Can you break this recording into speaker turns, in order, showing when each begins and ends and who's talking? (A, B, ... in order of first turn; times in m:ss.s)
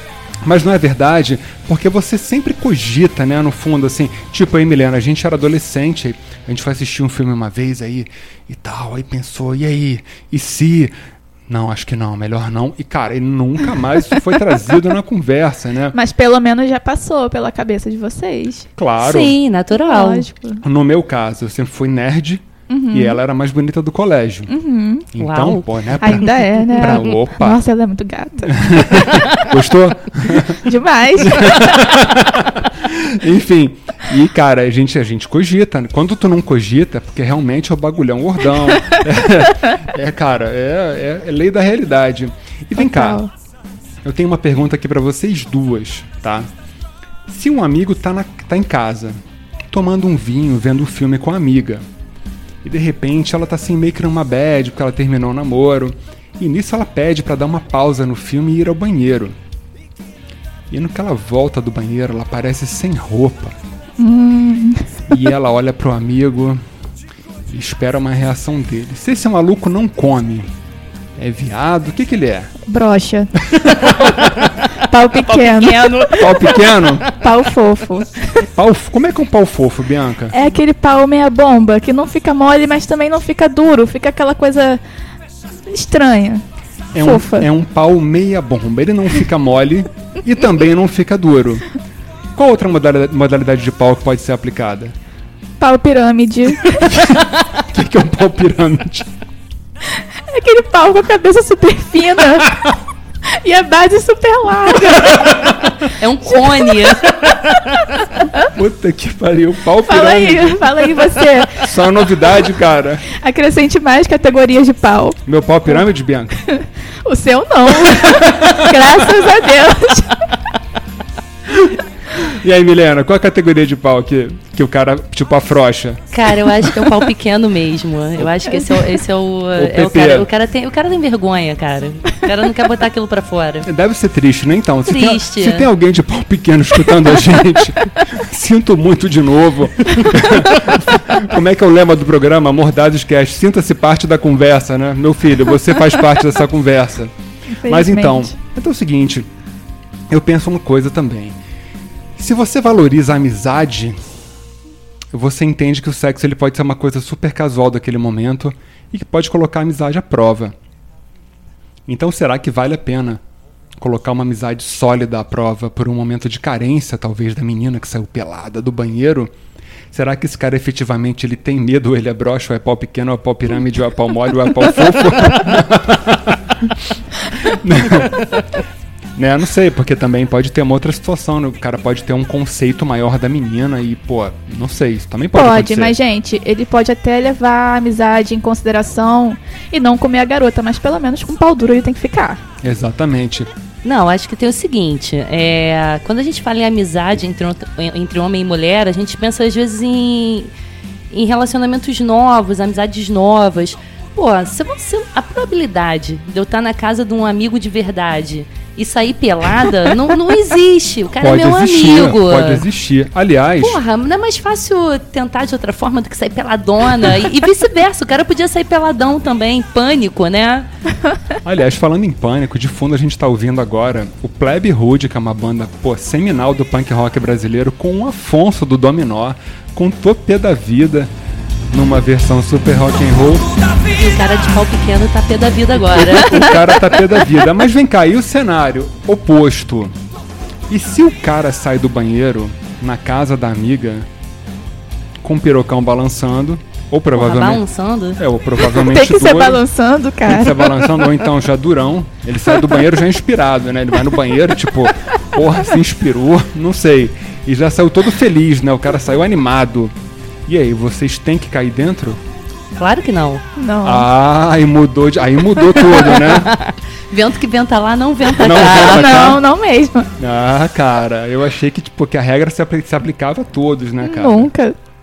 0:00.4-0:10.9 A
0:11.5-0:16.0 A
0:15.9-0:18.7 B
0:18.8-0:19.4 A
0:19.0-0:20.3 C
0:19.7-0:20.6 B
0:20.6-0:24.5 A
0:22.7-0:23.2 B
0:24.5-0:25.0 B
0:25.1-0:27.6 A
0:25.2-0:25.6 C
0:26.0-0:29.3 B
0:28.6-0:30.6 A
0:30.5-0:31.7 B
0:31.2-0:43.2 A
0:42.8-0:43.3 B
0:44.0-0:46.5 A
0:47.3-0:49.2 A
0:49.7-0:51.8 A
0:52.6-0:59.4 A
1:00.7-1:03.6 A
1:04.0-1:05.0 B
1:05.1-1:06.6 A
1:07.5-1:10.5 A
1:11.2-1:12.5 A
1:12.7-1:13.3 B
1:13.5-1:14.1 A
1:13.9-1:14.5 C
1:14.8-1:15.9 B
1:15.2-1:17.4 C
1:16.1-1:17.0 A
1:17.1-1:18.4 B
1:18.5-1:20.3 A
1:20.3-1:24.8 B
1:25.7-1:26.4 B
1:26.9-1:31.7 A
1:27.0-1:27.5 B
1:32.4-1:34.9 A
1:35.6-1:36.9 B
1:36.8-1:39.1 A
1:40.3-1:42.5 B
1:43.4-1:45.6 B
1:46.0-1:47.1 C
1:46.4-1:46.7 B
1:48.4-1:50.7 A
1:49.9-1:51.7 B
1:51.6-1:53.1 A
1:53.1-1:55.2 B
1:55.2-1:56.4 A
1:56.5-2:00.2 B
1:58.1-1:59.1 A
2:01.5-2:06.7 A
2:06.1-2:13.7 C
2:09.6-2:10.3 A
2:13.6-2:27.1 A
2:14.8-2:15.7 C
2:27.6-2:28.3 B
2:27.6-2:29.2 A
2:30.1-2:31.4 A
2:32.2-2:34.0 A
2:35.1-2:40.5 A
2:41.9-2:43.2 A
2:43.8-2:49.3 A
2:49.9-2:56.7 A
2:57.4-2:58.4 A
2:59.2-3:06.0 A
3:05.3-3:12.4 B
3:12.6-3:13.5 A
3:13.8-3:20.5 C
3:21.1-3:32.6 C
3:31.2-3:33.8 A
3:33.6-3:40.7 C
3:41.4-3:51.1 A
3:51.7-3:53.4 A
3:53.8-3:56.5 C
3:56.2-3:59.9 A
4:00.7-4:04.1 A
4:05.2-4:07.6 A
4:07.1-4:08.2 C
4:08.2-4:09.6 A
4:08.6-4:11.0 B
4:10.2-4:19.9 A
4:20.5-4:22.2 A
4:22.7-4:23.4 C
4:23.6-4:24.1 B
4:23.8-4:26.5 A
4:25.7-4:29.3 C
4:28.4-4:29.4 A
4:28.6-4:30.1 B
4:30.2-4:34.5 A
4:34.0-4:34.8 B